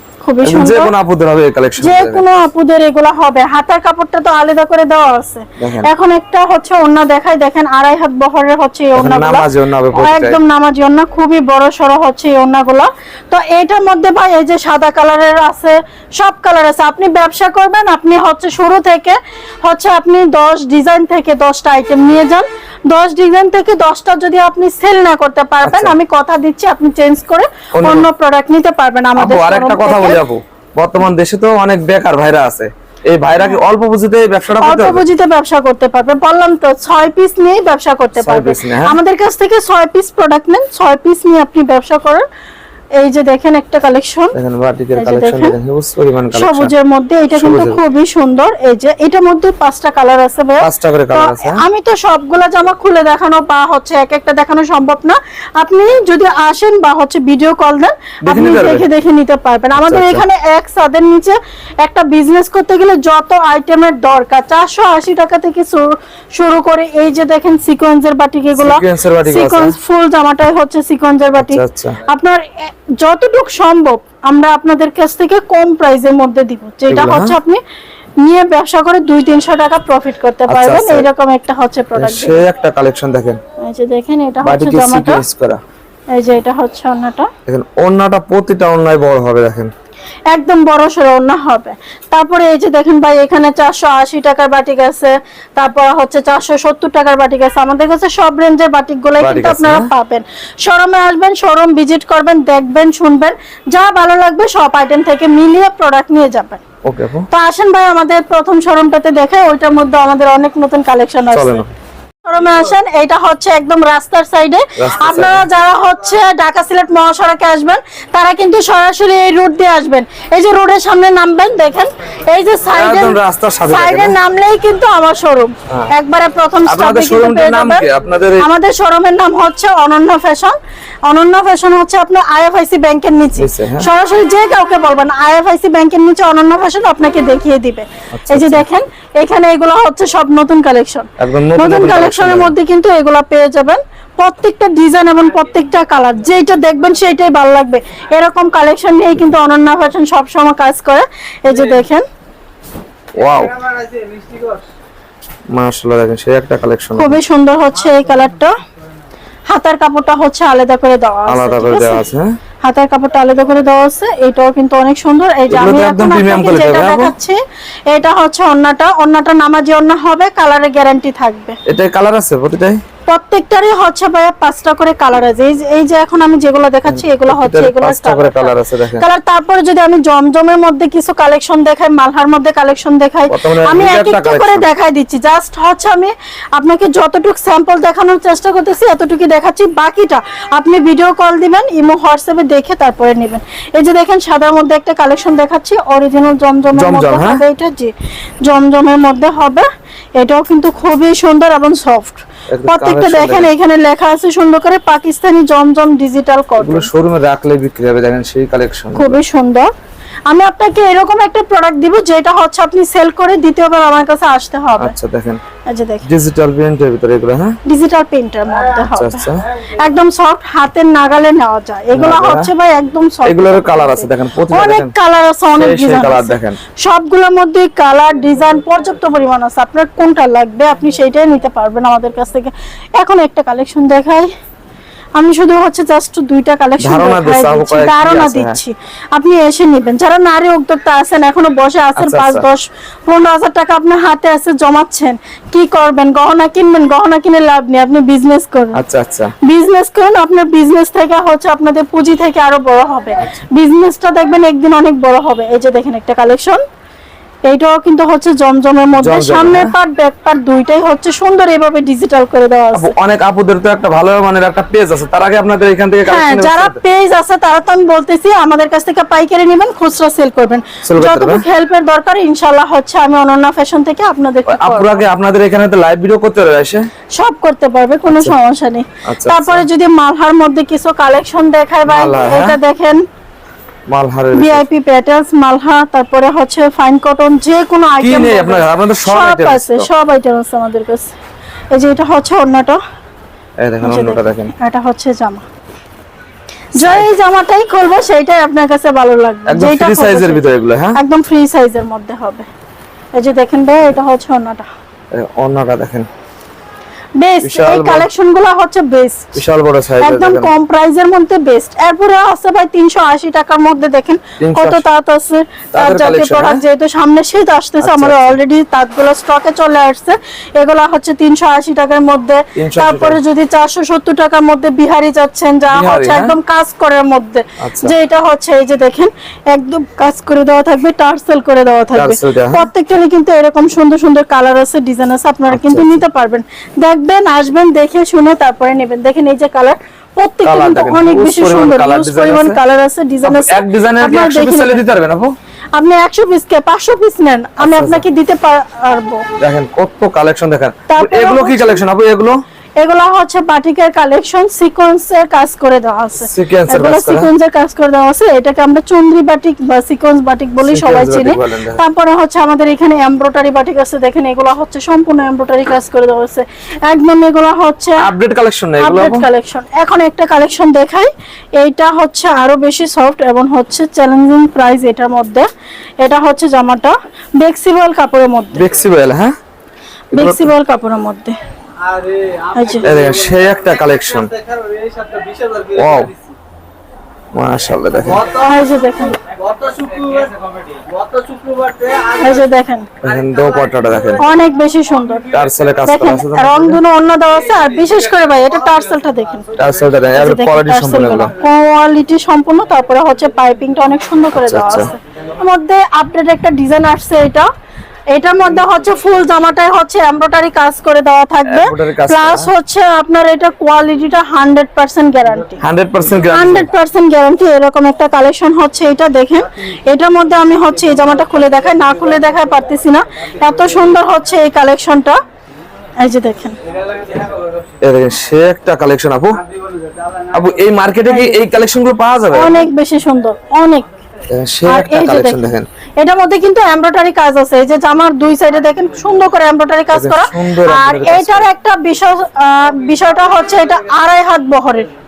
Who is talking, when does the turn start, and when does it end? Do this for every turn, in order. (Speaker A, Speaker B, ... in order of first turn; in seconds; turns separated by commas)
Speaker A: 0.2-0.9, Speaker B: 0.4-2.3, Speaker A: 1.8-30.2, Speaker B: 5.6-5.9, Speaker B: 9.0-10.4, Speaker B: 25.6-25.9, Speaker B: 27.8-28.1, Speaker B: 29.2-35.0, Speaker A: 34.6-42.2, Speaker B: 38.2-39.0, Speaker A: 43.0-44.4, Speaker B: 44.4-46.7, Speaker A: 45.0-45.5, Speaker A: 46.3-77.6, Speaker B: 47.4-47.8, Speaker B: 50.6-51.6, Speaker B: 58.3-58.9, Speaker B: 59.8-60.2, Speaker B: 68.6-69.8, Speaker B: 71.4-72.0, Speaker B: 76.9-77.4, Speaker A: 78.2-82.4, Speaker B: 80.5-81.1, Speaker B: 82.0-83.4, Speaker A: 83.6-85.2, Speaker B: 84.4-85.6, Speaker A: 86.1-87.3, Speaker B: 87.5-89.7, Speaker A: 90.3-106.6, Speaker B: 99.2-99.9, Speaker B: 106.8-107.3, Speaker A: 107.3-111.6, Speaker B: 111.3-111.7, Speaker A: 112.3-127.9, Speaker B: 114.8-115.5, Speaker B: 122.7-124.2, Speaker B: 126.7-128.5, Speaker A: 128.4-152.1, Speaker B: 133.4-133.9, Speaker B: 138.1-138.7, Speaker B: 141.2-142.6, Speaker B: 153.2-153.6, Speaker B: 155.5-157.2, Speaker A: 157.0-158.6, Speaker A: 159.5-162.0, Speaker B: 161.3-162.3, Speaker A: 162.6-167.4, Speaker B: 165.5-167.1, Speaker A: 167.9-171.6, Speaker B: 171.7-172.8, Speaker A: 173.1-199.7, Speaker B: 176.9-179.1, Speaker B: 183.3-184.7, Speaker B: 196.8-197.4, Speaker A: 200.2-206.9, Speaker B: 202.5-203.5, Speaker B: 206.6-209.2, Speaker A: 208.9-209.7, Speaker A: 210.3-214.9, Speaker B: 214.8-215.4, Speaker A: 215.7-216.1, Speaker B: 216.1-217.6, Speaker A: 217.7-234.3, Speaker B: 218.9-219.4, Speaker B: 221.9-222.5, Speaker B: 223.2-224.9, Speaker B: 225.5-226.6, Speaker A: 235.2-248.8, Speaker B: 236.8-238.6, Speaker B: 242.0-242.5, Speaker B: 248.8-249.3, Speaker A: 249.4-256.6, Speaker A: 257.5-262.9, Speaker B: 259.0-259.8, Speaker B: 262.7-266.8, Speaker A: 266.1-275.0, Speaker B: 270.9-271.4, Speaker B: 274.5-276.9, Speaker A: 277.1-283.0, Speaker B: 278.1-278.4, Speaker B: 279.1-279.7, Speaker B: 281.9-282.6, Speaker B: 283.9-284.7, Speaker A: 284.3-291.1, Speaker B: 288.0-289.9, Speaker A: 291.7-292.8, Speaker B: 293.6-294.5, Speaker A: 293.8-295.4, Speaker A: 296.8-300.4, Speaker B: 296.8-297.1, Speaker B: 299.5-301.0, Speaker A: 301.0-302.5, Speaker A: 303.1-304.7, Speaker B: 305.1-306.1, Speaker A: 307.2-309.4, Speaker B: 307.4-308.1, Speaker B: 309.4-310.5, Speaker A: 310.0-344.8, Speaker B: 314.4-314.8, Speaker B: 315.7-316.6, Speaker B: 317.8-318.4, Speaker B: 322.6-323.2, Speaker B: 325.7-326.4, Speaker B: 327.6-327.9, Speaker B: 331.9-332.7, Speaker B: 335.5-336.0, Speaker B: 340.4-342.6, Speaker B: 343.2-345.3, Speaker A: 345.8-349.3, Speaker B: 347.6-348.0, Speaker B: 349.4-352.4, Speaker A: 350.9-351.8, Speaker A: 352.8-368.1, Speaker B: 356.2-357.3, Speaker B: 360.6-361.8, Speaker B: 368.0-369.3, Speaker A: 368.8-375.5, Speaker A: 376.0-378.6, Speaker B: 378.6-379.4, Speaker B: 380.1-380.5, Speaker A: 380.1-381.4, Speaker C: 381.9-383.4, Speaker A: 382.5-382.9, Speaker B: 382.8-384.3, Speaker C: 384.3-385.9, Speaker B: 385.7-386.1, Speaker B: 387.4-388.3, Speaker A: 388.3-389.2, Speaker C: 389.4-392.1, Speaker A: 392.1-392.9, Speaker B: 393.0-394.2, Speaker A: 394.2-395.3, Speaker B: 395.3-396.8, Speaker A: 395.9-399.6, Speaker B: 399.6-401.3, Speaker A: 400.1-407.5, Speaker B: 404.3-404.9, Speaker A: 408.1-415.6, Speaker B: 411.5-412.5, Speaker B: 415.6-416.7, Speaker A: 416.3-425.2, Speaker A: 426.0-426.6, Speaker C: 426.7-427.2, Speaker B: 427.8-429.4, Speaker B: 430.3-432.6, Speaker A: 431.1-431.5, Speaker A: 432.3-433.9, Speaker B: 434.3-435.7, Speaker A: 434.7-435.5, Speaker A: 436.0-444.9, Speaker B: 439.9-441.5